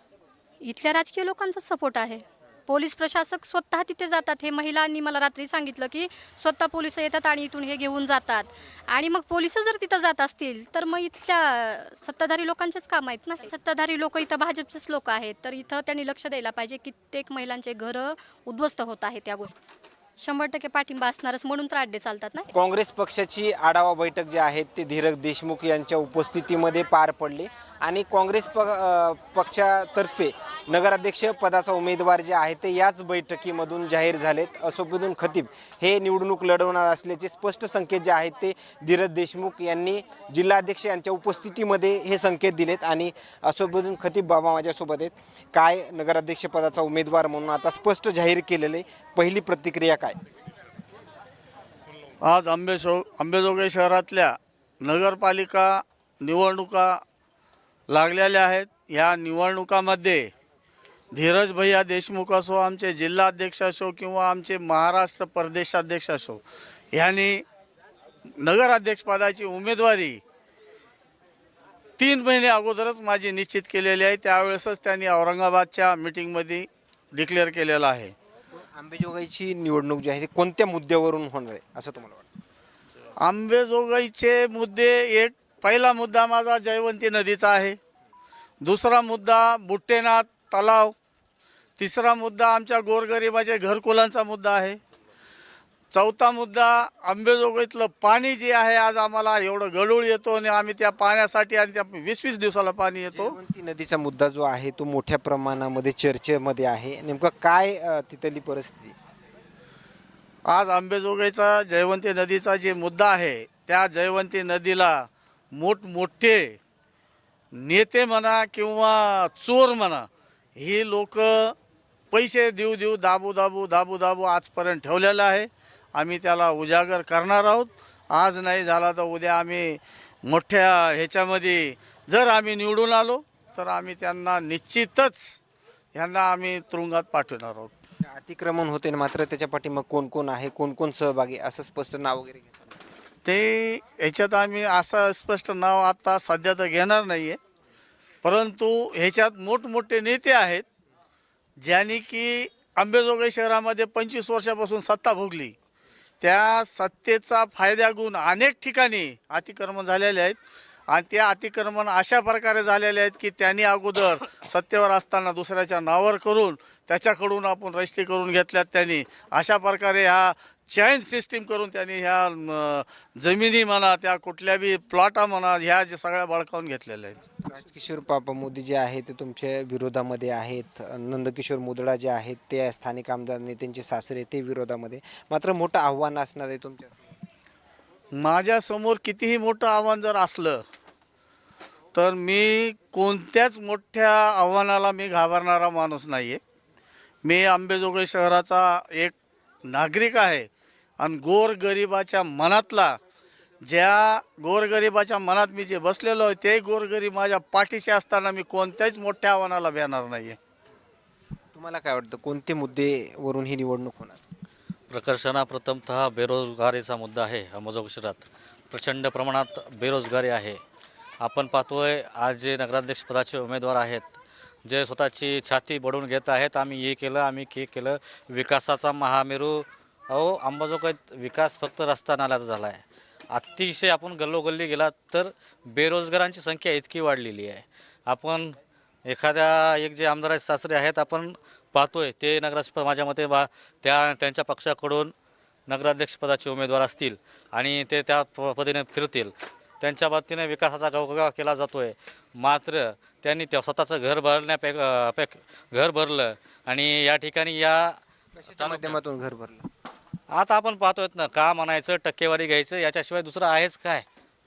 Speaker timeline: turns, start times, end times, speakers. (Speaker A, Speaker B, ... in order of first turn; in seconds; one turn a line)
Speaker A: 0.6-19.6
Speaker A: 20.2-22.5
Speaker B: 22.5-50.2
Speaker C: 52.2-57.0
Speaker C: 57.9-60.3
Speaker C: 61.1-66.4
Speaker C: 66.9-67.4
Speaker C: 68.4-70.2
Speaker C: 72.0-78.1
Speaker B: 78.5-82.2
Speaker C: 83.2-87.8
Speaker C: 88.6-90.9
Speaker C: 91.8-94.8
Speaker C: 95.9-103.4
Speaker B: 103.1-109.0
Speaker C: 110.5-116.6
Speaker C: 117.5-121.5
Speaker C: 122.1-135.4
Speaker C: 135.9-137.8
Speaker B: 138.0-142.7
Speaker C: 143.2-147.4
Speaker C: 148.2-150.7
Speaker C: 151.6-155.5
Speaker C: 156.2-160.4
Speaker C: 160.9-177.2
Speaker B: 177.4-186.9
Speaker C: 188.1-190.6
Speaker C: 191.9-196.4
Speaker C: 197.2-199.2
Speaker C: 199.7-200.5
Speaker C: 201.0-203.0
Speaker C: 203.6-210.4
Speaker B: 211.5-214.2
Speaker D: 214.9-220.6
Speaker D: 221.2-224.1
Speaker D: 224.7-238.6
Speaker D: 239.1-245.1
Speaker D: 245.7-258.0
Speaker B: 258.4-259.7
Speaker D: 258.5-259.0
Speaker D: 260.3-264.1